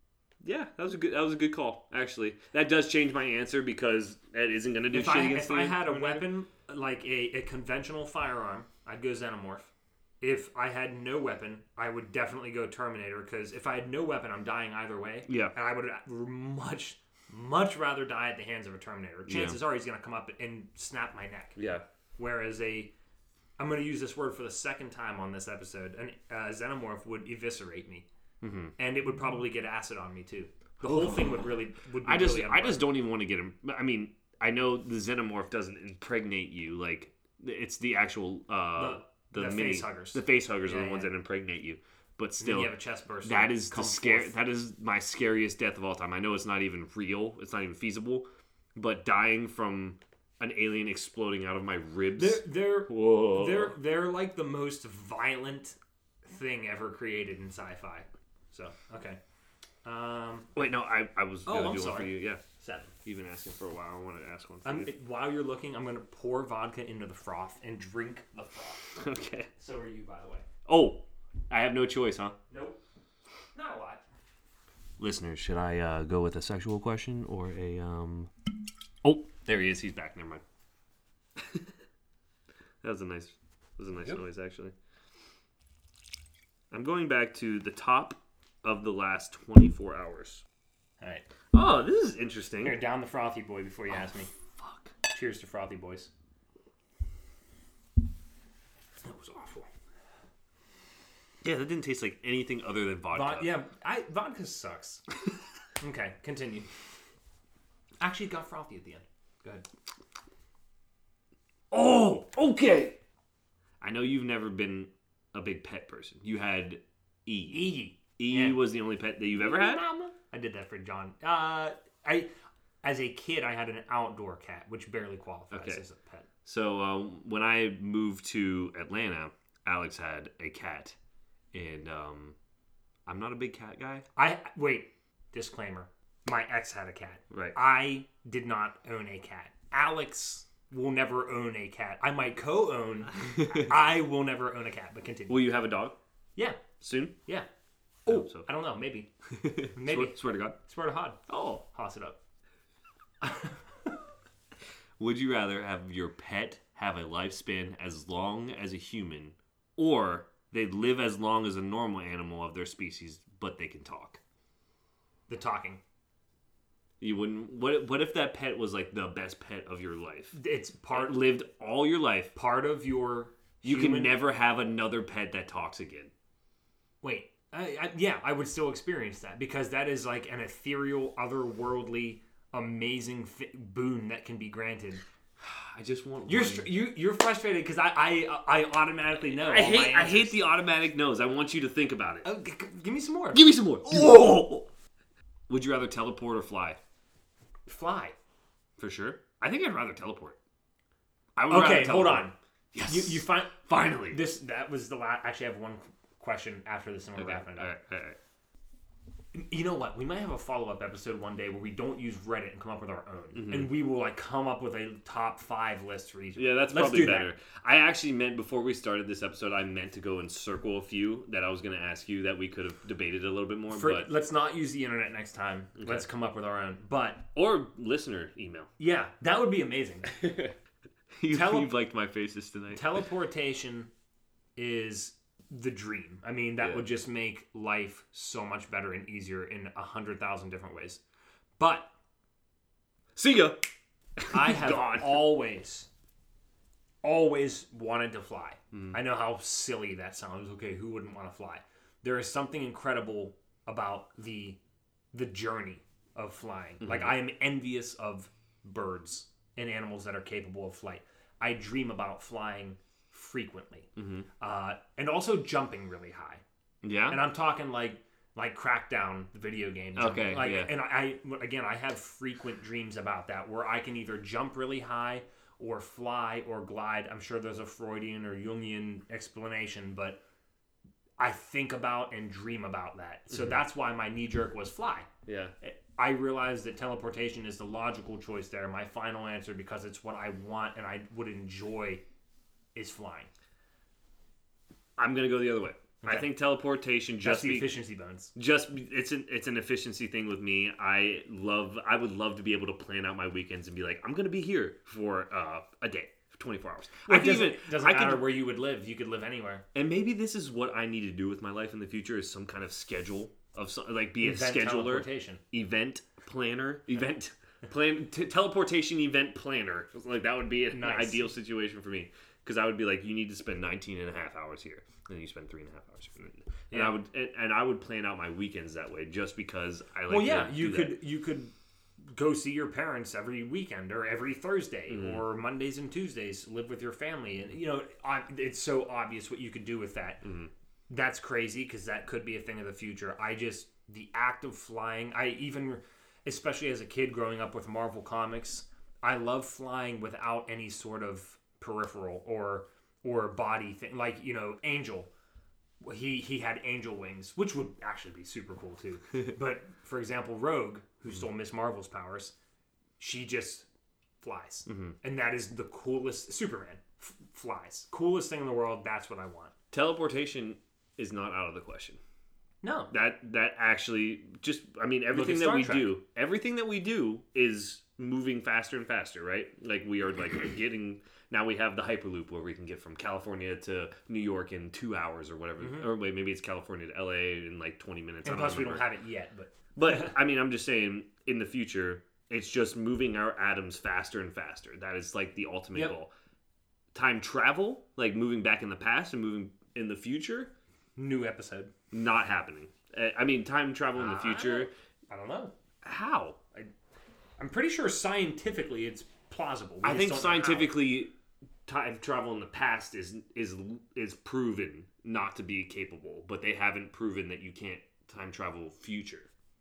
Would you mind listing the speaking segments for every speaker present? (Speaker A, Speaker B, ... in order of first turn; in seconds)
Speaker A: 0.4-6.3, 15.3-15.5, 19.2-19.6, 21.6-21.8, 28.4-28.7, 30.8-42.7, 43.2-53.8, 60.5-62.4, 63.0-64.9, 69.0-69.5, 70.7-72.3, 75.0-78.3, 79.0-80.4, 81.4-81.7, 82.8-84.7, 86.7-90.4, 91.5-92.8, 94.6-94.9, 101.4-103.5, 111.7-113.0, 113.8-119.8, 125.5-125.8, 126.4-131.0, 131.5-132.3, 133.1-134.1, 137.3-137.6, 145.3-146.0, 146.8-147.2, 148.1-148.5, 149.3-150.6, 151.3-151.6, 155.0-164.2, 167.0-170.4, 170.9-172.3, 173.6-176.1, 185.4-186.7, 189.2-192.3, 193.3-194.7, 195.5-196.8, 198.8-200.4, 201.3-204.2, 207.2-208.2, 213.3-213.7, 216.4-224.1, 225.8-226.1, 227.3-228.7, 230.1-230.5, 231.2-233.0, 236.6-236.9, 243.2-243.6, 244.2-245.4, 256.8-257.1, 264.0-264.2, 266.8-267.2, 269.9-270.7, 283.3-283.6, 285.2-285.5, 295.0-297.8, 298.3-308.3, 309.7-331.0, 334.9-335.2, 340.2-340.5, 364.7-364.9, 369.7-372.0, 372.9-388.8, 389.7-396.1, 396.9-400.5, 401.9-404.7, 405.8-406.4, 409.8-411.1, 411.7-419.3
Speaker B: 4.9-9.7, 10.2-21.6, 22.2-22.9, 23.6-28.1, 28.8-32.9, 38.8-41.1, 42.4-44.3, 52.1-59.2, 59.8-60.5, 61.5-62.9, 64.6-68.9, 69.5-70.4, 72.5-72.8, 73.5-74.0, 92.6-94.3, 95.1-96.1, 99.0-99.7, 103.1-105.0, 105.8-106.7, 108.0-109.6, 117.5-118.6, 119.3-122.3, 122.8-126.3, 134.1-145.5, 146.3-146.6, 148.0-149.1, 149.7-152.2, 153.2-153.5, 165.3-165.8, 170.3-171.2, 172.3-174.2, 177.0-185.0, 186.3-190.4, 192.2-194.3, 197.7-198.1, 201.5-207.7, 209.3-217.3, 223.7-227.3, 228.8-230.2, 231.3-231.7, 232.7-233.9, 234.6-241.0, 241.6-241.9, 244.3-245.9, 247.0-254.6, 255.1-266.4, 267.1-280.2, 281.2-285.1, 285.6-292.0, 292.7-293.3, 297.2-298.3, 307.1-309.6, 314.2-315.4, 320.7-321.3, 326.7-326.9, 330.1-331.5, 332.1-340.3, 340.9-355.1, 355.8-362.3, 363.0-363.7, 364.2-369.5, 372.6-372.9, 375.1-375.9, 385.6-385.9, 388.2-390.1, 400.9-401.7, 403.9-405.5, 407.4-410.7